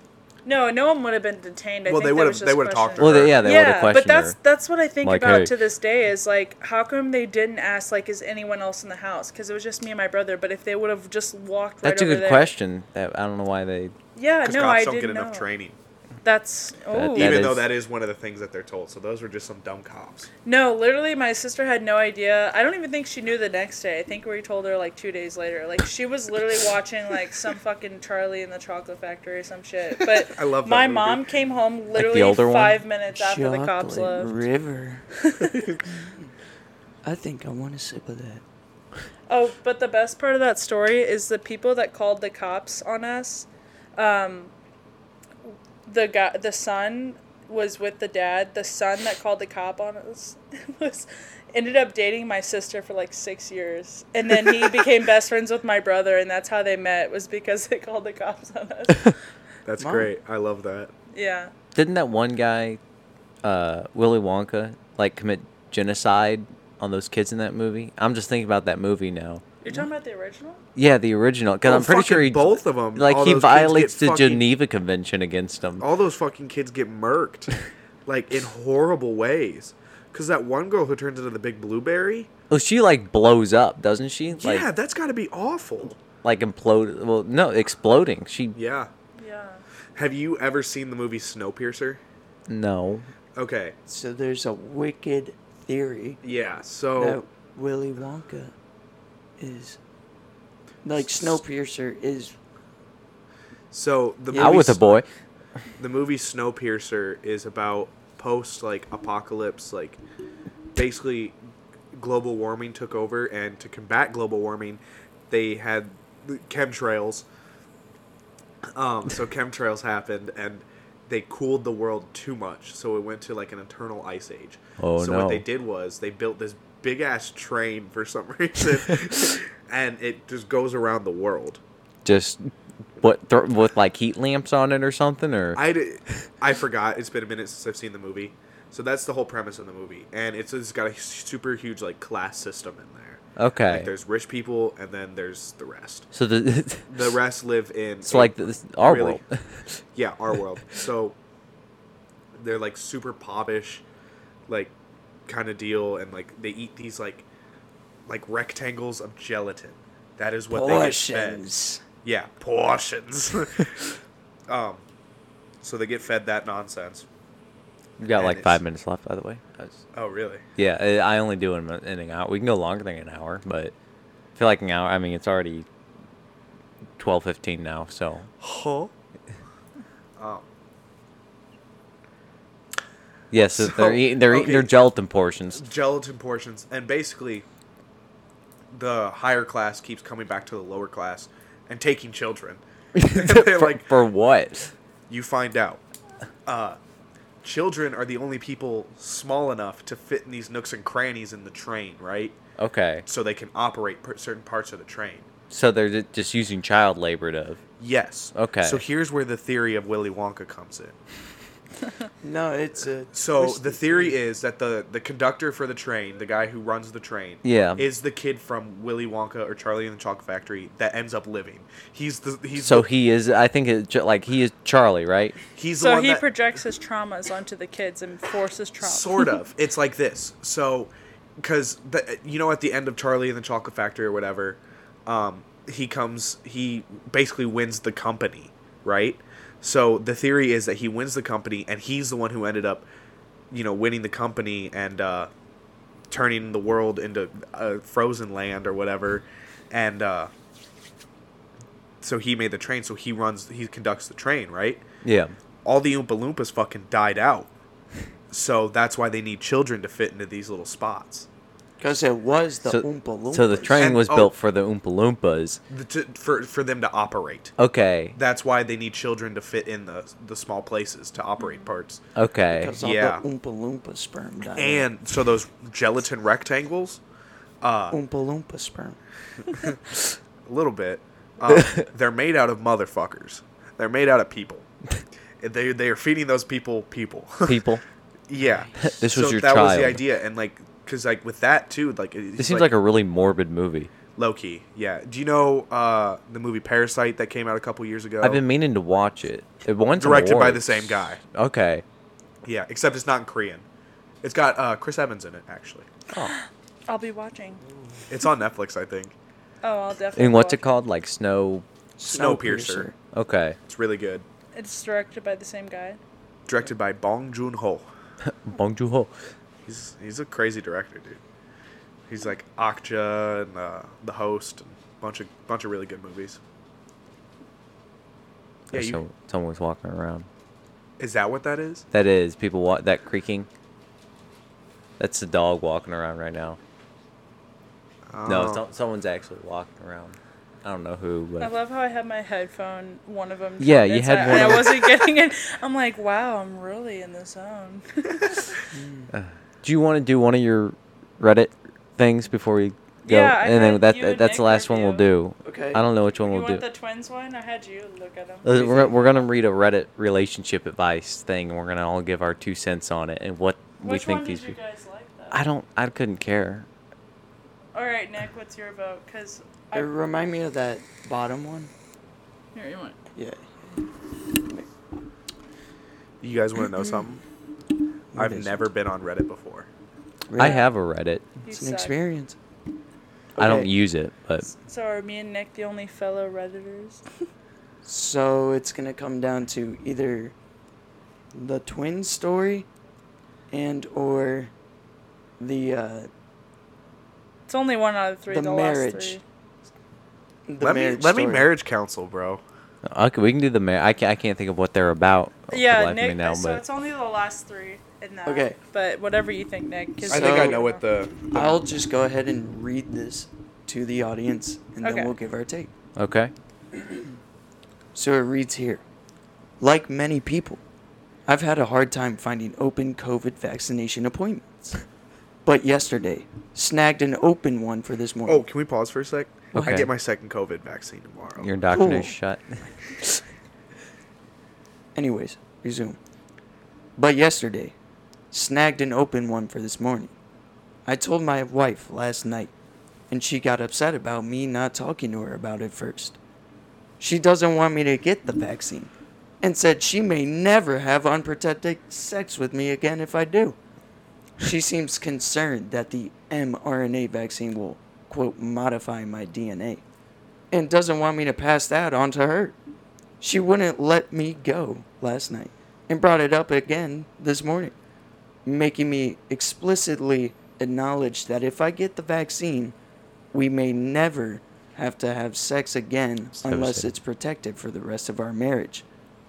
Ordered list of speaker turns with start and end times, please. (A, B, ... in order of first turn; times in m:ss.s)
0:00.4-0:12.5 A
0:01.8-0:03.4 B
0:03.0-0:04.4 C
0:05.0-0:05.5 C
0:11.8-0:13.9 C
0:14.1-0:15.4 A
0:14.4-0:15.8 B
0:16.2-0:17.5 A
0:16.9-0:17.7 C
0:17.1-0:20.3 B
0:20.4-0:34.4 A
0:30.3-0:31.3 B
0:31.9-0:32.8 C
0:33.1-0:35.1 D
0:35.3-0:35.8 A
0:37.0-0:38.4 D
0:39.3-0:44.5 A
0:45.8-0:59.1 A
0:59.6-1:00.9 B
0:59.8-1:00.1 D
1:01.1-1:01.5 A
1:01.7-1:02.8 C
1:03.4-1:09.9 C
1:09.6-1:10.6 A
1:10.8-1:15.8 C
1:11.6-1:14.4 B
1:15.8-1:17.5 B
1:18.0-1:22.3 B
1:22.5-1:24.7 C
1:24.4-1:26.0 B
1:26.2-1:28.6 C
1:28.5-1:28.9 B
1:29.2-1:29.6 A
1:30.0-1:32.0 B
1:32.5-1:33.1 C
1:33.4-1:33.8 B
1:33.9-1:36.2 D
1:36.2-1:37.2 B
1:37.0-1:38.5 D
1:39.4-1:39.8 D
1:40.8-1:42.4 D
1:43.7-1:45.0 B
1:44.3-1:44.7 D
1:44.4-1:45.0 C
1:45.8-1:50.0 B
1:50.7-1:51.4 B
1:51.9-1:57.2 B
1:58.7-2:11.6 B
2:04.8-2:05.4 C
2:12.0-2:15.6 C
2:15.5-2:26.1 B
2:23.4-2:23.9 C
2:26.1-2:27.1 C
2:26.9-2:29.2 B
2:28.0-2:29.7 C
2:29.9-2:31.2 B
2:32.4-2:33.8 B
2:34.5-2:34.7 B
2:35.3-2:37.2 B
2:38.1-2:41.4 B
2:40.5-2:41.8 D
2:42.0-2:43.9 B
2:44.5-2:44.8 B
2:45.6-2:47.0 B
2:48.0-2:49.8 C
2:48.1-2:48.6 B
2:49.9-2:50.4 B
2:50.6-2:53.7 C
2:54.4-2:55.6 C
2:57.0-2:58.3 C
2:58.4-2:58.9 B
3:00.2-3:00.4 B
3:03.3-3:05.6 C
3:03.5-3:04.8 B
3:05.5-3:07.4 B
3:08.7-3:13.9 B
3:12.9-3:14.7 C
3:15.1-3:15.8 B
3:16.4-3:16.8 B
3:17.4-3:22.4 B
3:22.6-3:23.0 C
3:23.0-3:25.3 B
3:25.5-3:27.6 C
3:27.8-3:30.9 B
3:28.3-3:28.8 C
3:32.2-3:34.2 D
3:33.1-3:42.9 B
3:37.4-3:37.8 C
3:42.6-3:45.4 C
3:45.6-3:46.2 B
3:45.8-3:49.4 A
3:48.8-4:02.9 B
4:03.5-4:05.3 B
4:06.1-4:10.3 B
4:12.0-4:14.8 B
4:15.0-4:15.3 C
4:15.6-4:17.5 B
4:18.3-4:21.3 B
4:21.8-4:23.9 D
4:22.7-4:25.6 C
4:23.8-4:24.3 B
4:25.7-4:27.5 B
4:27.6-4:28.1 C
4:28.1-4:32.0 B
4:31.4-4:31.7 A
4:32.1-4:32.8 C
4:32.5-4:34.9 D
4:32.8-4:33.2 B
4:34.6-4:37.0 B
4:37.6-4:38.0 B
4:37.9-4:39.0 D
4:39.5-4:39.8 B
4:40.4-4:44.7 B
4:41.5-4:41.8 C
4:45.4-4:47.6 B
4:47.4-4:47.8 C
4:48.3-4:52.7 B
4:48.4-4:49.0 D
4:48.8-4:50.0 C
4:52.4-4:53.9 C
4:54.2-4:58.4 B
4:58.2-5:01.8 C
5:00.0-5:01.2 B
5:02.4-5:03.6 B
5:04.2-5:05.9 B
5:06.9-5:07.6 A
5:08.1-5:09.1 B
5:09.6-5:10.7 A
5:10.2-5:11.6 C
5:12.0-5:12.9 D
5:12.0-5:12.9 B
5:13.1-5:13.6 C
5:13.7-5:14.2 B
5:14.5-5:16.0 A
5:16.4-5:17.8 B
5:18.2-5:19.1 C
5:19.6-5:21.2 B
5:22.1-5:26.4 B
5:28.7-5:30.3 C
5:28.7-5:29.0 B
5:31.0-5:31.8 B
5:31.9-5:33.5 C
5:35.0-5:36.6 C
5:38.1-5:38.6 B
5:38.2-5:41.5 C
5:41.4-5:48.6 A
5:43.6-5:44.9 C
5:48.7-5:49.1 D
5:49.1-5:56.6 C
5:53.0-5:55.0 A
5:55.4-5:55.8 D
5:56.2-5:58.7 A
5:58.4-6:04.6 C
5:58.5-5:58.9 D
6:03.8-6:05.4 A
6:05.3-6:06.7 C
6:07.7-6:09.9 A
6:09.7-6:11.7 D
6:12.5-6:13.0 A
6:13.2-6:13.4 D
6:14.2-6:14.6 D
6:16.2-6:17.2 B
6:18.1-6:18.6 D
6:18.1-6:19.7 B
6:20.3-6:20.6 D
6:20.4-6:21.2 C
6:20.4-6:20.6 A
6:21.4-6:22.0 A
6:21.5-6:22.4 D
6:23.3-6:23.7 D
6:23.4-6:24.5 C
6:24.5-6:27.0 A
6:27.8-6:30.3 D
6:31.3-6:32.7 D
6:33.5-6:34.5 D
6:35.4-6:36.1 D
6:37.5-6:39.2 A
6:38.3-6:39.2 D
6:40.5-6:41.5 D
6:40.6-6:42.4 B
6:42.8-6:46.6 C
6:45.5-6:50.8 A
6:48.2-6:48.6 D
6:50.0-6:50.6 D
6:50.1-6:51.6 B
6:51.3-6:55.7 D
6:54.8-6:55.1 A
6:56.0-6:56.3 C
6:57.9-6:58.8 D
6:59.6-7:00.6 D
7:01.2-7:04.8 D
7:05.4-7:08.4 D
7:08.3-7:11.5 B
7:09.5-7:09.9 C
7:11.4-7:12.6 C
7:11.7-7:12.1 D
7:14.9-7:16.0 D
7:17.0-7:17.7 D
7:18.3-7:20.1 D
7:20.8-7:22.5 D
7:23.1-7:26.2 D
7:27.0-7:28.9 D
7:29.4-7:33.6 D
7:34.4-7:39.8 D
7:40.5-7:42.6 D
7:43.2-7:47.7 D
7:48.4-7:52.7 D
7:53.3-7:58.8 D
7:56.4-7:56.8 C